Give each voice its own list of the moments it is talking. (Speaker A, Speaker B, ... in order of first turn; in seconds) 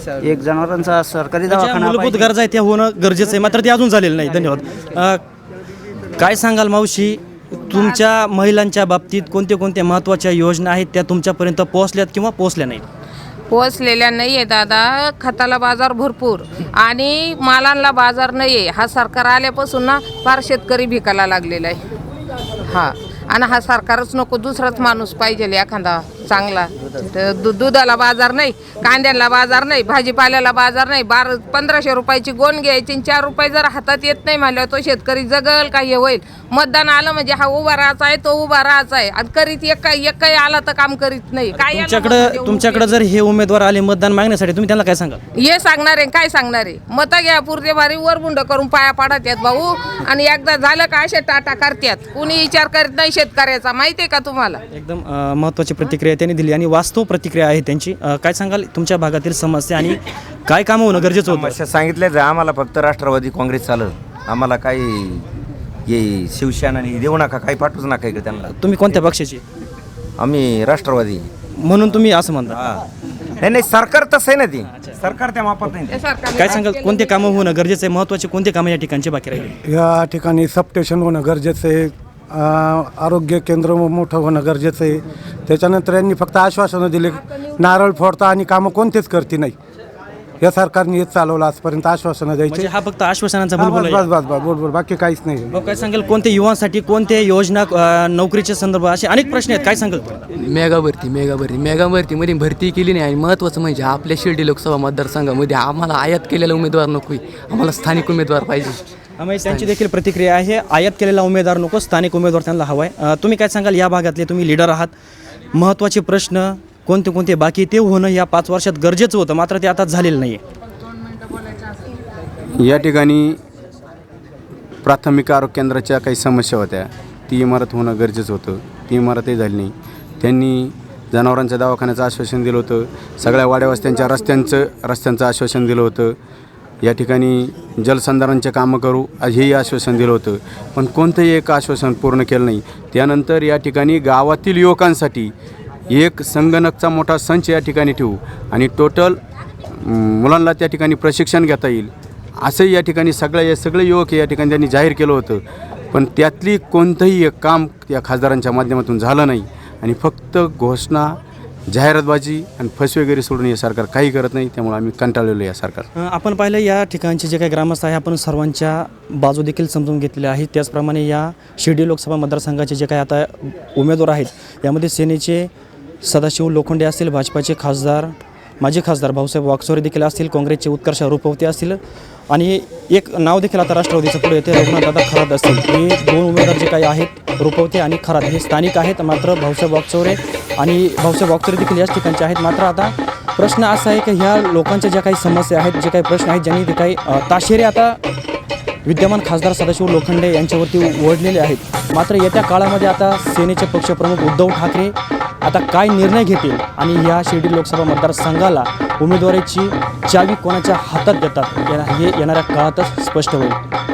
Speaker A: 0.2-2.2
Speaker B: 1.4-5.2, 6.2-12.8, 41.5-45.2, 54.7-61.6, 68.6-69.4, 71.6-72.5, 76.3-79.5, 92.5-94.1, 95.5-100.2, 109.2-114.9, 115.5-120.4, 166.0-175.5, 176.0-181.8, 182.3-198.0, 198.8-213.6
Speaker C: 7.7-8.0, 13.5-21.8, 22.7-43.0, 45.4-54.6, 75.9-77.3
Speaker D: 61.0-65.2, 65.9-68.5, 70.2-71.3, 72.5-72.8, 73.4-76.0
Speaker E: 79.6-89.5, 90.4-92.7, 93.6-95.6
Speaker F: 100.3-108.8, 109.5-109.8
Speaker G: 122.6-123.4, 124.8-136.2, 136.8-145.3, 145.9-149.2, 149.8-151.9, 152.4-155.4, 155.9-161.2, 161.7-165.8